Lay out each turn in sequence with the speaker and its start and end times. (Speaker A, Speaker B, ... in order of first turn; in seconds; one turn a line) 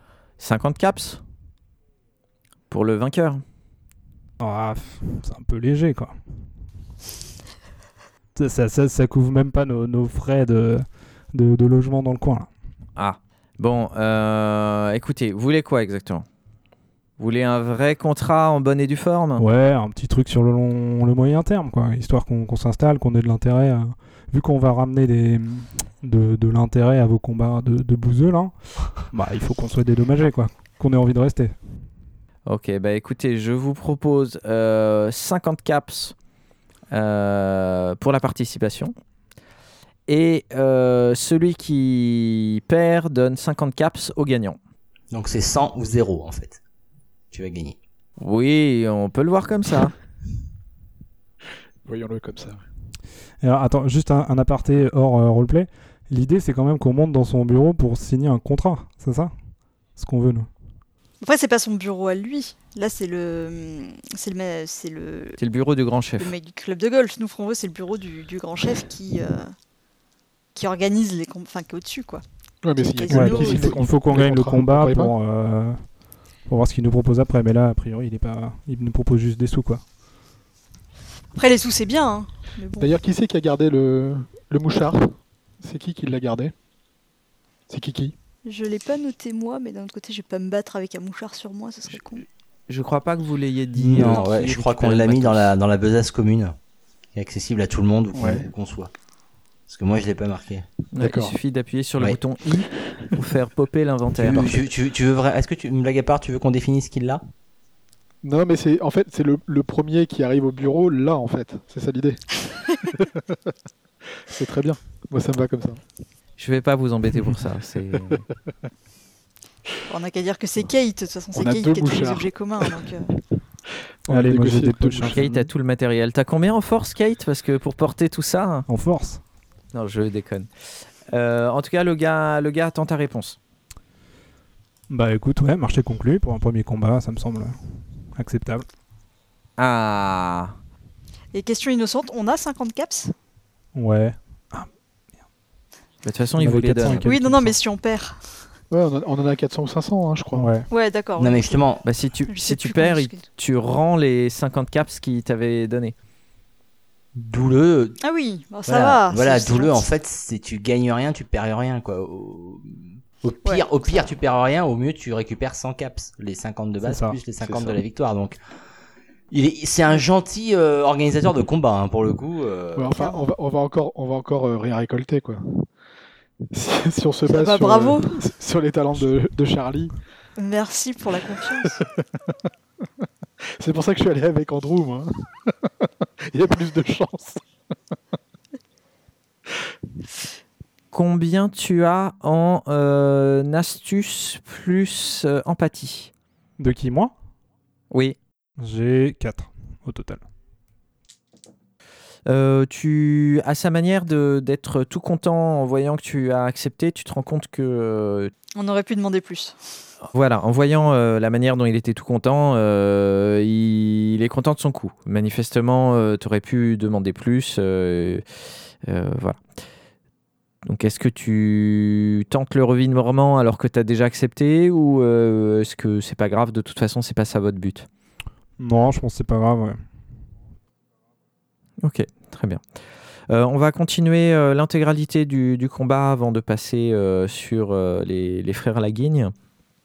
Speaker A: 0.4-1.2
Speaker A: 2.7-3.4
Speaker B: 4.4-6.7
Speaker B: 8.3-12.5
Speaker A: 12.9-16.2
Speaker A: 17.2-19.4
Speaker B: 19.4-31.9
Speaker A: 32.5-36.1
Speaker A: 36.9-38.9
Speaker A: 40.1-44.6
Speaker C: 45.1-46.6
Speaker C: 47.3-47.8
Speaker A: 48.2-49.9
Speaker D: 51.9-52.6
Speaker B: 53.4-60.5
Speaker E: 61.2-65.4
Speaker A: 65.4-66.3
Speaker E: 66.2-69.5
Speaker E: 70.5-72.2
Speaker D: 72.6-75.1
Speaker E: 72.8-73.7
Speaker B: 73.1-79.8
Speaker E: 81.3-82.9
Speaker D: 82.8-86.5
Speaker D: 87.7-88.2
Speaker E: 88.4-92.2
Speaker A: 92.7-95.5
Speaker C: 93.8-96.5
Speaker C: 97.1-98.9
Speaker D: 98.1-98.5
Speaker C: 99.7-100.6
Speaker A: 100.9-104.6
Speaker D: 101.0-101.3
Speaker C: 104.1-107.2
Speaker D: 108.2-113.1
Speaker D: 114.2-115.8
Speaker A: 116.4-118.2
Speaker E: 119.9-123.1
Speaker D: 121.3-122.8
Speaker D: 124.0-125.3
Speaker B: 124.1-125.4
Speaker A: 125.2-128.7
Speaker B: 128.7-129.2
Speaker A: 129.7-130.5
Speaker A: 131.1-133.4
Speaker B: 134.9-138.7
Speaker A: 139.6-140.5
Speaker E: 141.3-143.1
Speaker B: 143.7-144.7
Speaker A: 146.0-147.1
Speaker B: 146.4-147.5
Speaker E: 147.0-148.4
Speaker D: 148.7-150.5
Speaker B: 150.3-150.7
Speaker E: 150.7-151.6
Speaker C: 151.2-151.8
Speaker A: 151.8-155.9
Speaker E: 152.3-153.2
Speaker C: 157.1-158.0
Speaker E: 158.0-159.9
Speaker C: 158.7-168.4
Speaker B: 166.8-167.2
Speaker D: 167.4-167.8
Speaker C: 169.3-173.2
Speaker D: 172.8-175.7
Speaker D: 176.5-180.0
Speaker E: 177.3-178.2
Speaker E: 180.4-181.7
Speaker D: 183.6-187.4
Speaker A: 190.9-196.1
Speaker B: 196.6-197.1
Speaker A: 197.9-198.2
Speaker B: 198.6-200.2
Speaker A: 202.2-208.3
Speaker E: 208.5-209.6
Speaker A: 210.0-218.2
Speaker A: 218.8-219.4
Speaker A: 220.6-227.9
Speaker B: 228.6-229.9
Speaker A: 231.8-232.6
Speaker A: 233.3-239.3